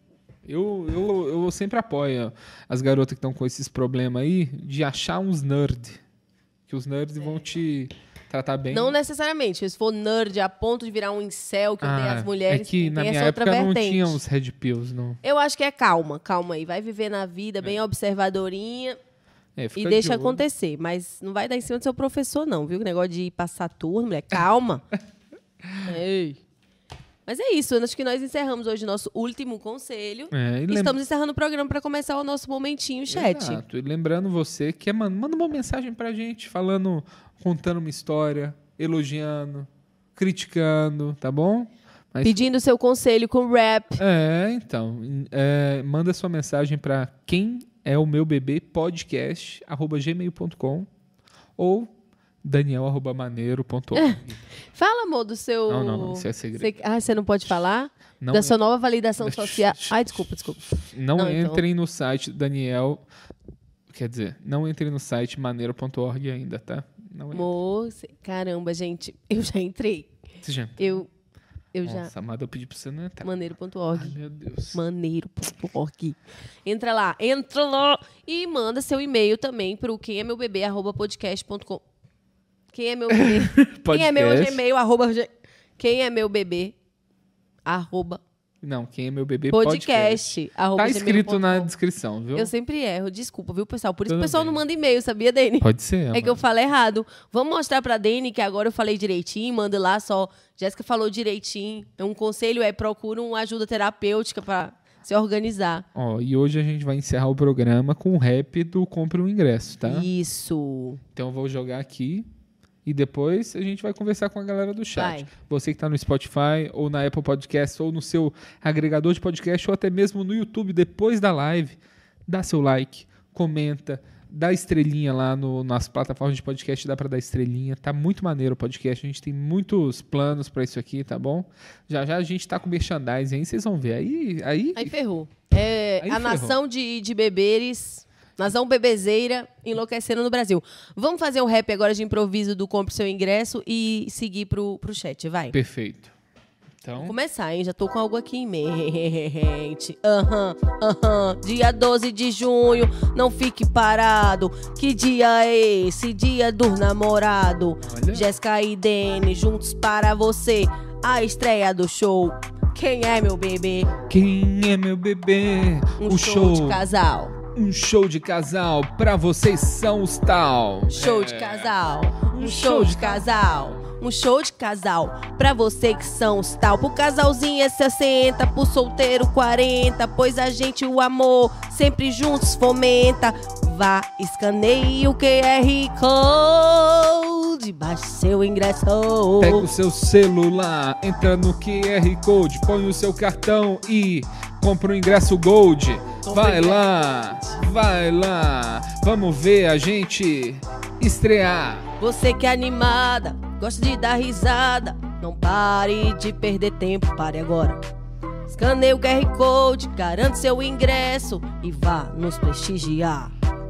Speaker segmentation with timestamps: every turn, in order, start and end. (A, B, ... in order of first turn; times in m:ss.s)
0:00.4-0:06.0 A
0:06.7-0:08.9 A
0:08.7-0:14.2 B
0:11.8-0:15.2 A
0:15.2-0:19.0 B
0:19.6-0:20.4 A
0:19.7-0:24.8 B
0:25.6-0:25.9 A
0:25.8-0:26.4 B
0:27.3-0:33.6 B
0:30.3-0:31.0 A
0:33.1-0:42.4 A
0:42.2-0:44.0 B
0:44.0-0:50.9 A
0:51.6-0:51.9 A
0:52.4-0:54.4 A
0:54.7-1:01.6 B
0:55.7-0:56.7 A
0:58.2-0:58.6 A
0:59.2-1:03.0 A
1:03.9-1:07.5 A
1:07.3-1:10.2 B
1:10.4-1:11.0 A
1:10.8-1:11.1 B
1:11.7-1:12.1 B
1:11.8-1:14.8 A
1:13.2-1:14.2 B
1:14.7-1:21.8 B
1:22.7-1:26.7 B
1:23.2-1:24.6 A
1:27.6-1:28.2 B
1:28.6-1:32.5 A
1:29.5-1:31.7 B
1:32.3-1:45.8 B
1:34.1-1:34.6 A
1:35.6-1:36.4 A
1:45.9-1:50.1 A
1:49.8-1:51.0 B
1:51.1-1:52.3 A
1:52.8-2:14.9 A
1:55.0-1:55.3 B
2:14.8-2:25.6 B
2:16.0-2:16.6 A
2:25.5-2:26.1 A
2:26.8-2:27.2 A
2:27.0-2:43.9 B
2:37.8-2:38.3 A
2:44.1-2:46.8 A
2:46.0-2:47.3 B
2:47.5-2:51.7 A
2:50.9-3:09.7 B
2:52.2-2:53.8 A
3:09.4-3:21.9 A
3:16.2-3:17.6 B
3:22.0-3:27.8 B
3:28.5-3:33.3 B